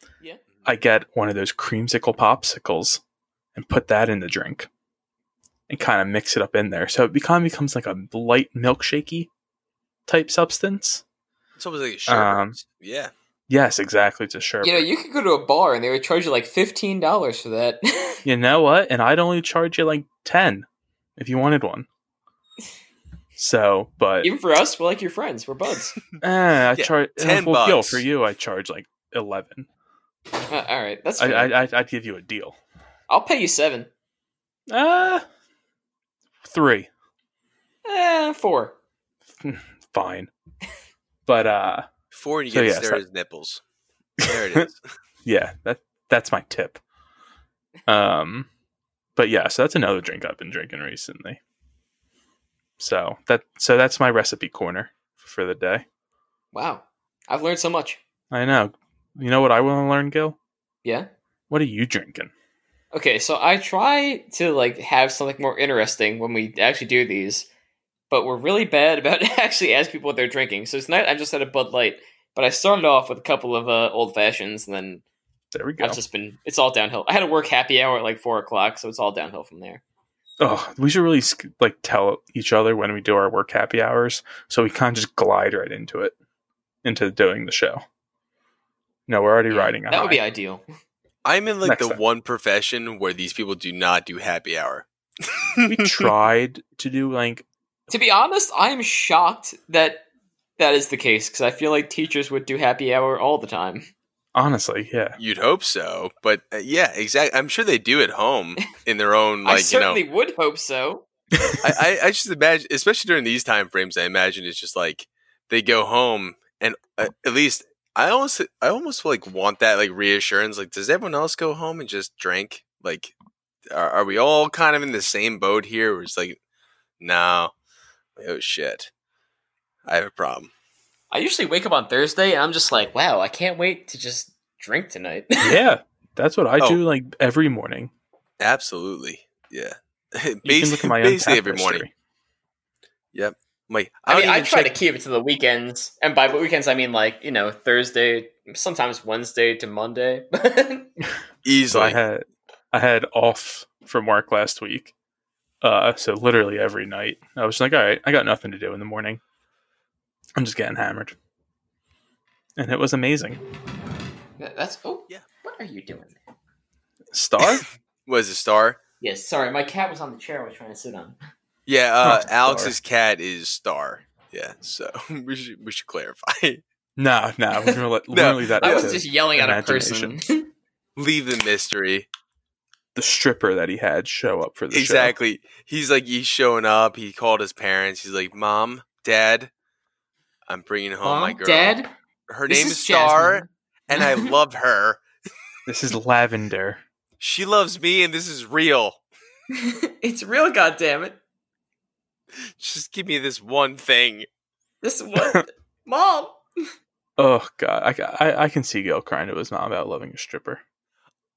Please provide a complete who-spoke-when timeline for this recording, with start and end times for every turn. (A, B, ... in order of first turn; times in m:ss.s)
0:00.6-0:03.0 A
0:03.5-0:04.7 A
0:05.7-0:09.3 A
0:10.1-0:11.0 A
0:11.6-0:13.1 B
0:12.1-0:12.6 A
0:13.5-0:14.9 A
0:14.6-0:18.2 C
0:18.2-0:20.6 A
0:21.2-0:21.9 A
0:23.4-0:24.3 A
0:24.2-0:26.0 C
0:26.2-0:29.7 A
0:26.7-0:28.1 B
0:30.5-0:31.5 C
0:31.2-0:32.6 A
0:33.1-0:33.9 C
0:34.7-0:35.2 A
0:36.4-0:36.9 A
0:37.8-0:38.8 C
0:39.4-0:40.3 A
0:41.2-0:41.9 A
0:42.1-0:43.6 B
0:42.5-0:43.0 A
0:44.2-0:44.8 B
0:45.2-0:46.8 A
0:47.9-0:48.5 A
0:49.2-0:51.4 A
0:52.8-0:55.8 A
0:56.5-0:58.0 C
0:58.3-1:00.4 A
1:01.5-1:02.3 A
1:02.9-1:07.5 C
1:08.1-1:15.0 C
1:15.5-1:16.0 A
1:15.8-1:19.8 C
1:20.4-1:26.1 A
1:26.8-1:27.8 A
1:29.1-1:30.2 A
1:29.5-1:30.6 C
1:31.2-1:34.8 B
1:31.6-1:32.0 A
1:35.6-1:37.4 A
1:37.9-1:40.0 C
1:40.6-1:43.9 C
1:44.3-1:45.2 A
1:45.2-1:50.0 B
1:49.4-1:51.1 C
1:51.6-2:03.1 B
2:03.7-2:06.4 B
2:07.0-2:07.5 B
2:08.2-2:08.9 B
2:09.9-2:10.5 B
2:11.1-2:15.6 C
2:15.4-2:17.9 A
2:18.4-2:21.8 B
2:20.4-2:21.9 A
2:23.1-2:24.8 B
2:24.1-2:30.9 C
2:31.4-2:32.0 B
2:31.7-2:34.9 A
2:35.6-2:39.2 A
2:40.4-2:41.2 A
2:42.6-2:43.4 A
2:44.4-2:46.2 C
2:47.1-2:47.6 A
2:47.6-2:48.8 B
2:49.0-2:51.2 C
2:51.7-2:56.6 B
2:52.0-2:52.7 A
2:57.0-3:00.2 A
2:58.1-2:59.0 B
2:58.6-3:00.5 C
3:01.0-3:02.1 B
3:02.9-3:05.1 A
3:04.7-3:09.5 B
3:10.5-3:15.0 B
3:11.0-3:11.9 C
3:12.5-3:14.3 C
3:15.7-3:16.8 A
3:17.2-3:19.0 B
3:19.6-3:21.2 C
3:22.6-3:24.2 B
3:24.8-3:26.4 C
3:25.2-3:25.4 A
3:27.2-3:30.6 A